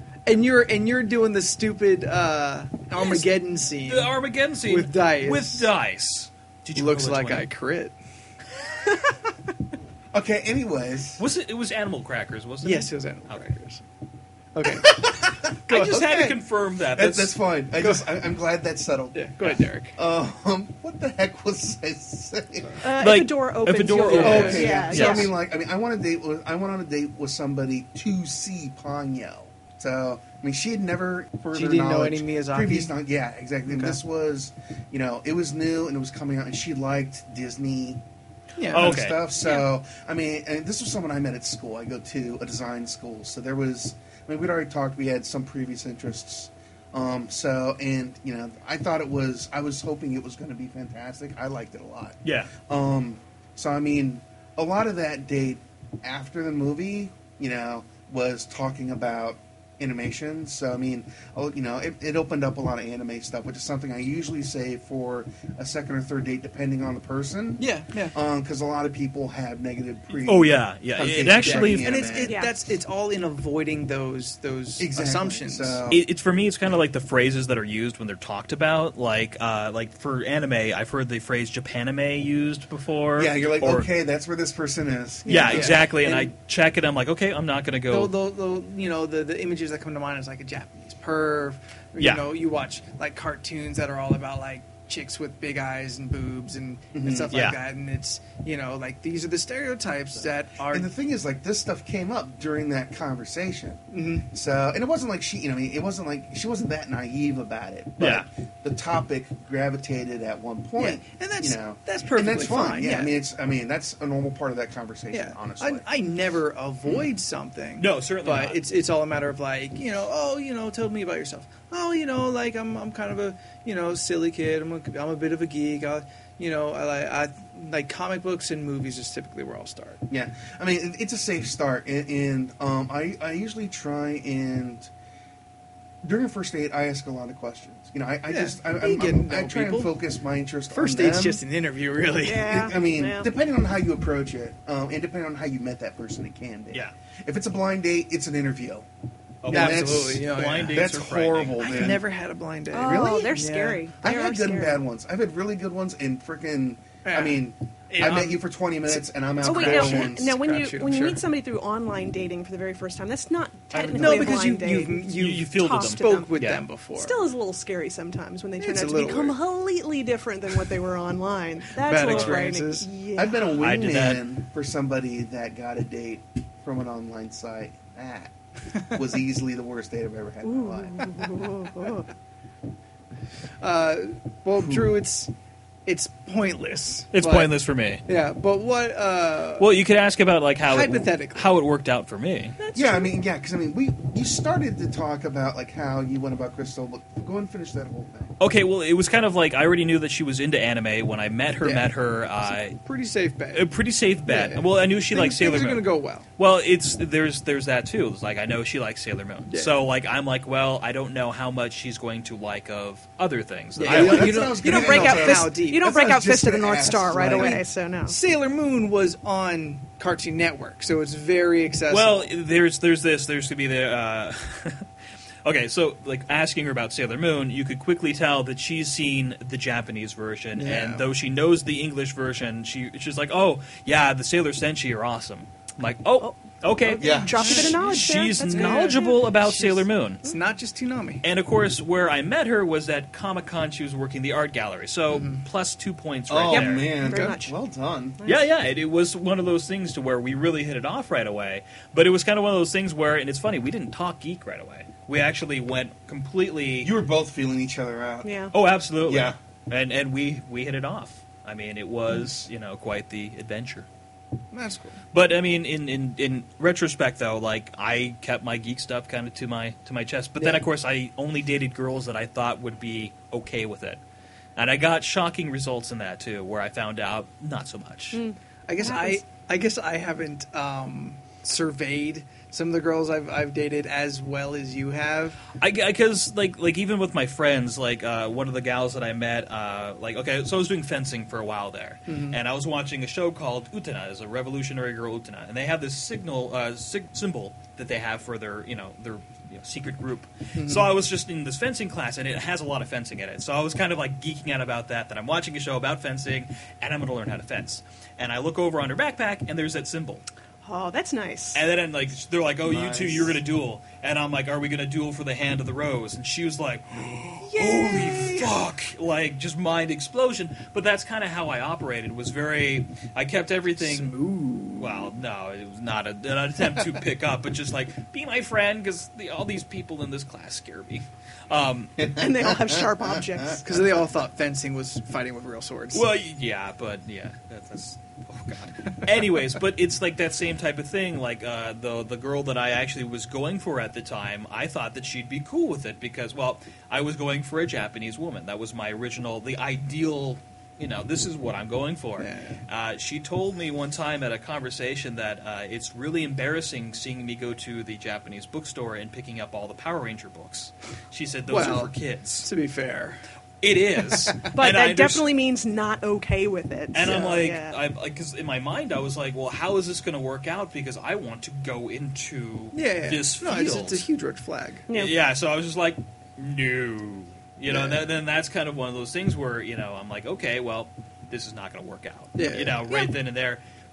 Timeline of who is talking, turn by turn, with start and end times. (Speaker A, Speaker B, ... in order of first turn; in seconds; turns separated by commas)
Speaker A: 0.3-4.1, Speaker B: 3.0-3.3, Speaker B: 3.8-7.5, Speaker A: 4.7-5.7, Speaker A: 6.8-7.9, Speaker C: 10.1-11.2, Speaker B: 11.2-13.4, Speaker A: 12.6-13.8, Speaker A: 14.5-15.2, Speaker C: 14.7-19.3, Speaker B: 15.7-17.4, Speaker A: 17.8-18.1, Speaker A: 19.1-19.9, Speaker C: 19.9-22.8, Speaker D: 22.8-25.3, Speaker B: 23.0-25.3, Speaker A: 24.1-24.9, Speaker C: 24.1-38.0, Speaker A: 31.5-32.9, Speaker A: 33.7-34.0, Speaker A: 38.6-39.0, Speaker B: 38.7-39.2, Speaker C: 38.7-72.4, Speaker B: 52.2-52.5, Speaker A: 67.6-68.2, Speaker B: 70.2-72.1, Speaker A: 71.3-75.8, Speaker D: 72.2-72.5, Speaker C: 74.8-76.0, Speaker B: 75.9-83.9, Speaker C: 83.2-85.8, Speaker B: 85.3-88.1, Speaker A: 85.3-86.3, Speaker A: 87.9-100.9, Speaker B: 92.0-92.3, Speaker C: 96.9-97.3, Speaker B: 97.3-97.6, Speaker C: 100.7-115.8, Speaker A: 103.9-104.3, Speaker B: 108.0-108.3, Speaker A: 110.8-113.1, Speaker A: 115.1-130.0, Speaker B: 117.8-118.6, Speaker C: 130.1-134.9, Speaker C: 136.0-141.4, Speaker A: 138.3-139.9, Speaker A: 140.7-142.5, Speaker D: 142.2-143.3, Speaker C: 142.3-148.9, Speaker B: 149.4-151.9, Speaker C: 149.5-152.0, Speaker A: 149.5-150.9, Speaker A: 151.6-153.8, Speaker D: 152.7-154.8, Speaker C: 152.8-153.3, Speaker C: 154.0-160.4, Speaker A: 157.1-161.2, Speaker D: 159.4-166.3, Speaker C: 163.7-164.6, Speaker A: 164.0-167.2, Speaker B: 165.1-166.6, Speaker D: 167.0-173.7, Speaker A: 168.6-169.4, Speaker A: 171.8-172.9, Speaker B: 172.0-172.4, Speaker C: 173.2-178.3, Speaker B: 173.6-174.2, Speaker C: 178.9-181.4, Speaker D: 180.4-182.1, Speaker A: 183.6-185.3, Speaker C: 184.6-185.0, Speaker A: 185.9-187.5, Speaker B: 187.1-188.0, Speaker A: 188.1-189.7, Speaker B: 189.6-192.6, Speaker A: 190.7-191.5, Speaker D: 192.6-193.2, Speaker C: 192.8-198.3, Speaker B: 198.4-202.8, Speaker A: 201.6-201.9, Speaker A: 202.4-203.7, Speaker B: 203.5-214.6, Speaker A: 204.3-206.2, Speaker A: 209.5-209.8, Speaker A: 213.8-215.9, Speaker C: 213.8-217.6, Speaker D: 214.5-218.2, Speaker A: 217.2-222.3, Speaker B: 221.9-224.9, Speaker B: 225.4-240.2, Speaker A: 230.6-231.1, Speaker D: 236.2-239.2, Speaker C: 237.0-237.6, Speaker A: 237.2-238.0, Speaker A: 238.5-241.2, Speaker B: 241.2-246.9, Speaker A: 245.1-245.4, Speaker C: 246.3-248.2, Speaker D: 246.5-247.5, Speaker B: 248.2-256.9, Speaker C: 256.8-258.4, Speaker D: 258.2-258.5, Speaker B: 258.5-263.9, Speaker C: 259.0-259.4, Speaker A: 264.5-265.0, Speaker B: 265.1-274.0, Speaker A: 270.4-270.6, Speaker B: 274.6-278.2, Speaker D: 278.1-279.2, Speaker A: 278.7-285.4, Speaker B: 285.6-310.2, Speaker A: 292.1-292.4, Speaker A: 300.6-300.9, Speaker D: 310.6-311.6, Speaker B: 311.6-324.1, Speaker C: 312.7-313.4, Speaker A: 317.4-318.5, Speaker D: 317.9-318.3, Speaker A: 323.8-325.1, Speaker B: 324.8-332.0, Speaker C: 332.0-333.5, Speaker D: 332.1-333.6, Speaker A: 333.6-336.1, Speaker B: 335.9-362.5, Speaker A: 352.2-352.6, Speaker A: 361.5-363.2, Speaker B: 363.6-365.3, Speaker A: 364.0-364.5, Speaker D: 364.6-367.8, Speaker B: 366.9-374.1, Speaker A: 367.0-367.4, Speaker A: 372.7-374.9, Speaker B: 374.9-383.6, Speaker A: 377.7-378.0, Speaker A: 382.4-382.8, Speaker D: 382.9-383.1